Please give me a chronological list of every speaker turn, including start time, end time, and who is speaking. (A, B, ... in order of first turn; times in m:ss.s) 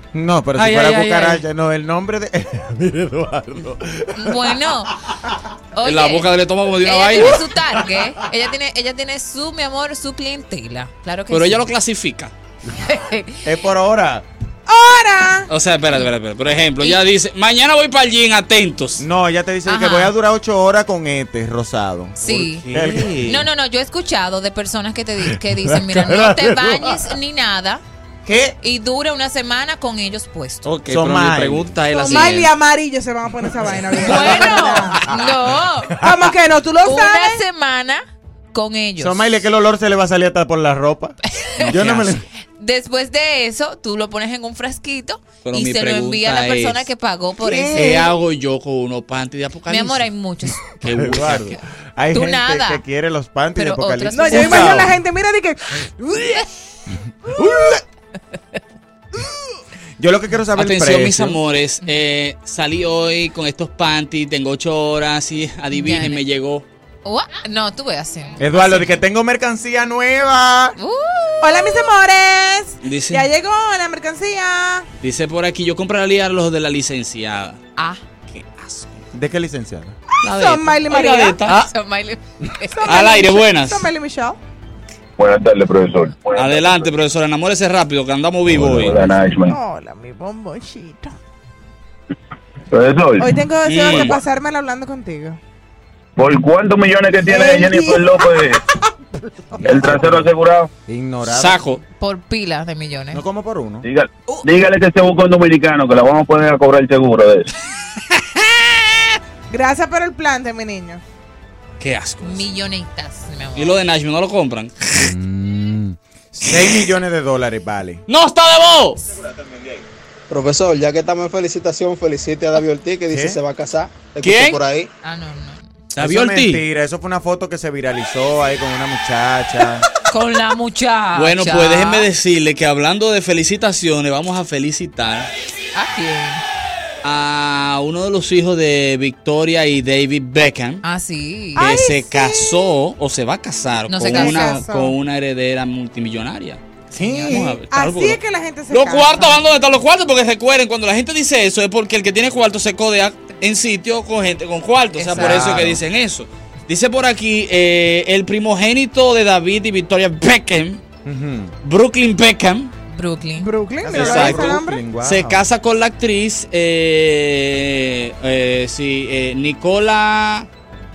0:00.1-0:04.7 A
0:00.6-0:01.4 B
0:04.2-0:04.9 C
0:05.7-0:06.3 C
0:05.8-0:07.4 B
0:06.8-0:11.7 C
0:11.3-0:12.3 B
0:12.8-0:13.4 C
0:13.4-0:14.2 A
0:14.7-0:15.5 D
0:15.5-0:19.0 B
0:19.0-0:23.3 A
0:19.7-0:20.1 C
0:22.2-0:22.6 C
0:22.2-0:23.4 B
0:23.2-0:27.8 C
0:25.3-0:27.1 A
0:28.2-0:28.6 A
0:28.6-0:30.7 C
0:30.6-0:32.5 B
0:30.9-0:31.7 A
0:31.9-0:35.1 D
0:34.0-0:36.0 C
0:35.0-0:35.4 A
0:36.0-0:37.4 D
0:36.8-0:39.2 C
0:39.0-0:42.2 A
0:41.3-0:41.9 C
0:41.6-0:42.2 B
0:42.4-0:48.0 C
0:45.4-0:46.9 B
0:47.4-0:48.1 A
0:47.7-0:50.1 B
0:49.7-0:50.7 C
0:50.7-0:51.6 B
0:50.9-0:55.0 A
0:52.1-0:52.8 C
0:53.6-0:54.8 C
0:54.1-0:56.4 D
0:57.3-0:57.8 A
1:00.0-1:01.4 A
1:00.6-1:06.6 B
1:05.7-1:06.2 C
1:07.0-1:09.0 C
1:08.4-1:10.8 A
1:10.8-1:11.8 C
1:11.4-1:14.9 D
1:12.8-1:13.3 B
1:15.0-1:17.6 B
1:17.8-1:18.0 C
1:18.3-1:19.0 B
1:19.1-1:20.0 A
1:20.2-1:21.7 B
1:20.2-1:21.4 D
1:21.5-1:23.0 C
1:22.7-1:24.4 D
1:22.8-1:23.9 B
1:25.2-1:26.9 E
1:26.3-1:29.0 B
1:28.5-1:29.0 A
1:28.7-1:29.6 E
1:29.5-1:31.2 D
1:32.7-1:33.3 E
1:33.2-1:35.4 D
1:33.6-1:34.2 B
1:36.2-1:38.6 E
1:37.2-1:38.6 D
1:39.5-1:40.3 A
1:39.6-1:40.7 E
1:40.8-1:41.6 A
1:41.2-1:41.8 B
1:42.0-1:43.2 C
1:43.1-1:43.8 A
1:43.8-1:47.5 E
1:48.1-1:49.2 B
1:49.5-1:51.0 D
1:51.8-1:52.5 B
1:52.2-1:53.8 C
1:53.6-1:55.1 B
1:55.0-1:58.0 A
1:56.5-1:56.8 B
1:58.1-1:59.0 B
1:59.1-1:59.8 A
2:00.3-2:04.9 F
2:03.1-2:03.4 A
2:04.2-2:04.6 B
2:05.0-2:05.7 C
2:05.9-2:06.6 B
2:06.0-2:09.8 A
2:10.1-2:12.1 C
2:11.1-2:15.3 B
2:15.7-2:16.4 C
2:17.0-2:20.8 B
2:20.8-2:21.7 C
2:21.6-2:22.7 D
2:21.6-2:26.6 B
2:23.9-2:24.6 C
2:24.0-2:25.0 D
2:26.9-2:27.4 C
2:26.9-2:27.6 A
2:27.3-2:40.8 B
2:27.7-2:29.4 D
2:35.0-2:35.6 C
2:35.1-2:35.8 A
2:41.0-2:41.5 A
2:41.6-2:42.7 B
2:42.9-2:43.5 C
2:43.4-2:44.8 D
2:43.8-2:45.4 A
2:43.9-2:50.5 B